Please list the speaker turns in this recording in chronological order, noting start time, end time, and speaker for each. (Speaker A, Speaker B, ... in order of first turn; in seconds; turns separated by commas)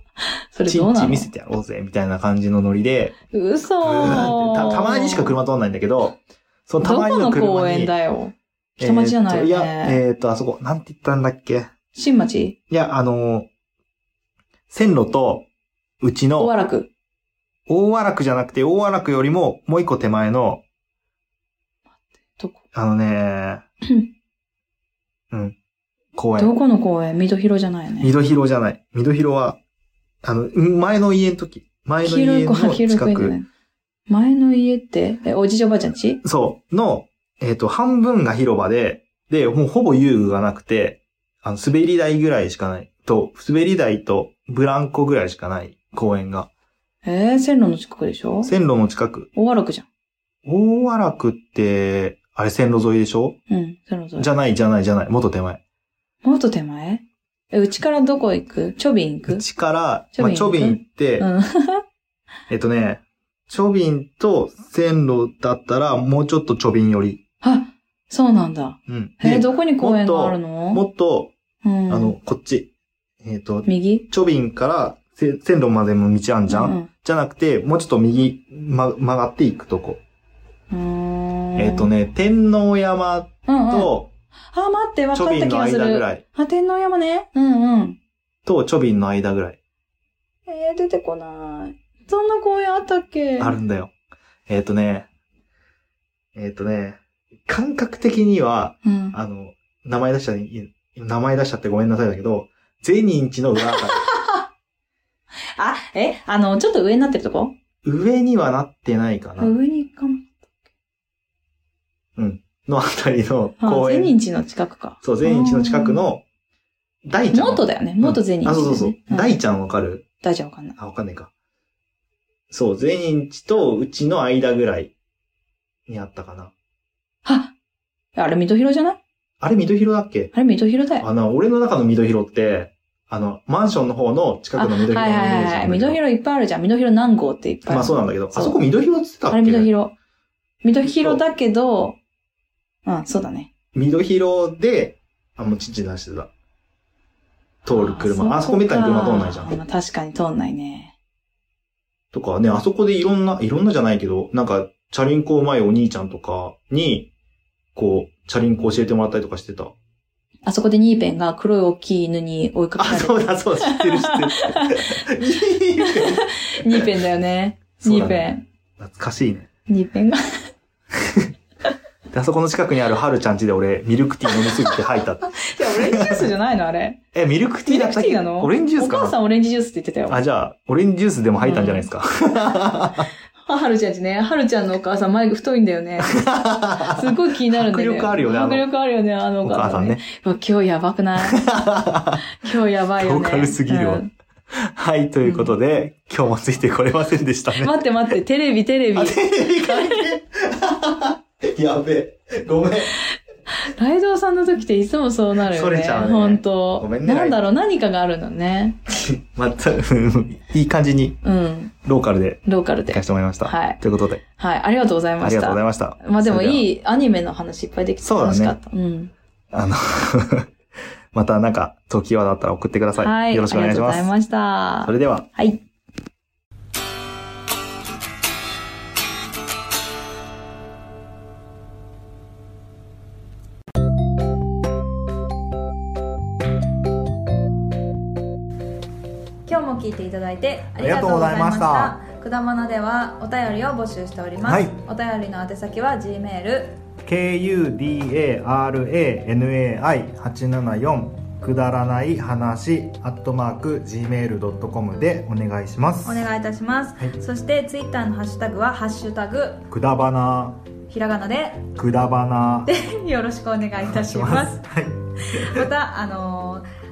Speaker A: 0.5-1.3, Speaker B: 0.7-3.2, Speaker A: 3.3-5.4, Speaker B: 3.8-7.9, Speaker A: 6.8-10.0, Speaker B: 8.8-11.7, Speaker A: 11.9-12.6, Speaker B: 12.7-13.5, Speaker B: 14.7-15.5, Speaker B: 16.0-16.5, Speaker A: 16.4-16.9, Speaker B: 17.7-20.6, Speaker A: 22.3-22.6, Speaker B: 22.7-23.6, Speaker B: 25.3-25.6, Speaker B: 26.2-26.5, Speaker A: 26.4-28.1, Speaker B: 28.0-29.6, Speaker B: 30.2-33.4, Speaker A: 32.0-33.5, Speaker A: 34.1-36.2, Speaker B: 36.2-46.5, Speaker A: 47.0-48.5, Speaker B: 48.4-49.3, Speaker A: 49.4-49.9, Speaker B: 50.5-53.4, Speaker A: 53.5-54.3, Speaker B: 54.2-55.6, Speaker A: 56.2-59.4, Speaker B: 59.3-61.3, Speaker A: 60.1-61.8, Speaker B: 62.5-67.2, Speaker A: 67.4-70.8, Speaker B: 68.9-71.3, Speaker A: 71.6-72.2, Speaker B: 71.9-72.7, Speaker B: 73.2-80.0, Speaker A: 73.7-74.0, Speaker A: 76.5-76.9, Speaker A: 80.7-81.9, Speaker B: 81.6-84.1, Speaker A: 83.5-83.9, Speaker A: 84.5-88.0, Speaker B: 85.1-86.2, Speaker B: 88.5-89.6, Speaker A: 90.5-93.6, Speaker B: 93.4-93.9, Speaker B: 94.5-95.1, Speaker B: 96.3-104.0, Speaker A: 98.8-99.2, Speaker A: 103.6-104.5, Speaker A: 105.6-107.5, Speaker B: 107.8-109.5, Speaker A: 109.4-110.5, Speaker B: 112.2-114.2, Speaker A: 113.6-116.0, Speaker B: 115.0-116.2, Speaker B: 117.0-120.0, Speaker A: 117.3-119.4, Speaker A: 120.2-120.8, Speaker B: 120.8-121.3, Speaker B: 122.5-124.9, Speaker B: 125.9-126.5, Speaker A: 127.2-127.5, Speaker A: 128.2-129.0, Speaker B: 129.4-130.3, Speaker A: 130.3-131.1, Speaker B: 131.0-136.0, Speaker A: 134.6-138.6, Speaker B: 137.7-139.7, Speaker A: 139.3-139.9, Speaker A: 140.6-142.0, Speaker B: 140.8-141.2, Speaker A: 142.8-143.5, Speaker B: 143.7-146.3, Speaker A: 147.7-151.0, Speaker B: 147.7-149.5, Speaker B: 152.1-157.1, Speaker B: 157.8-159.8, Speaker A: 160.4-165.2, Speaker B: 162.8-166.9, Speaker A: 165.8-168.4, Speaker B: 167.8-169.5, Speaker A: 169.7-170.2, Speaker B: 172.1-176.3, Speaker A: 175.3-177.0, Speaker B: 177.1-179.2, Speaker A: 177.7-180.2, Speaker B: 180.1-183.1, Speaker A: 181.4-181.9, Speaker A: 183.4-186.3, Speaker B: 186.1-188.7, Speaker A: 186.8-191.4, Speaker B: 189.4-190.0, Speaker B: 191.2-192.3, Speaker A: 192.4-194.1, Speaker B: 193.0-194.0, Speaker B: 194.6-197.8, Speaker A: 195.2-195.5, Speaker A: 197.6-200.1, Speaker B: 199.0-203.0, Speaker A: 203.5-208.8, Speaker B: 205.4-207.4, Speaker B: 209.1-211.2, Speaker A: 211.2-211.7, Speaker B: 211.8-214.2, Speaker A: 212.5-213.8, Speaker A: 214.4-219.1, Speaker B: 215.2-216.7, Speaker B: 218.0-218.6, Speaker B: 219.5-220.5, Speaker B: 221.1-224.1, Speaker A: 223.0-225.6, Speaker B: 224.8-225.3, Speaker A: 239.5-246.8, Speaker B: 240.8-242.0, Speaker B: 244.4-244.8, Speaker B: 247.1-256.3, Speaker A: 256.1-259.7, Speaker B: 259.7-260.6, Speaker A: 260.9-261.7, Speaker B: 261.8-262.7, Speaker A: 262.7-264.6, Speaker B: 263.8-265.0, Speaker A: 265.3-266.6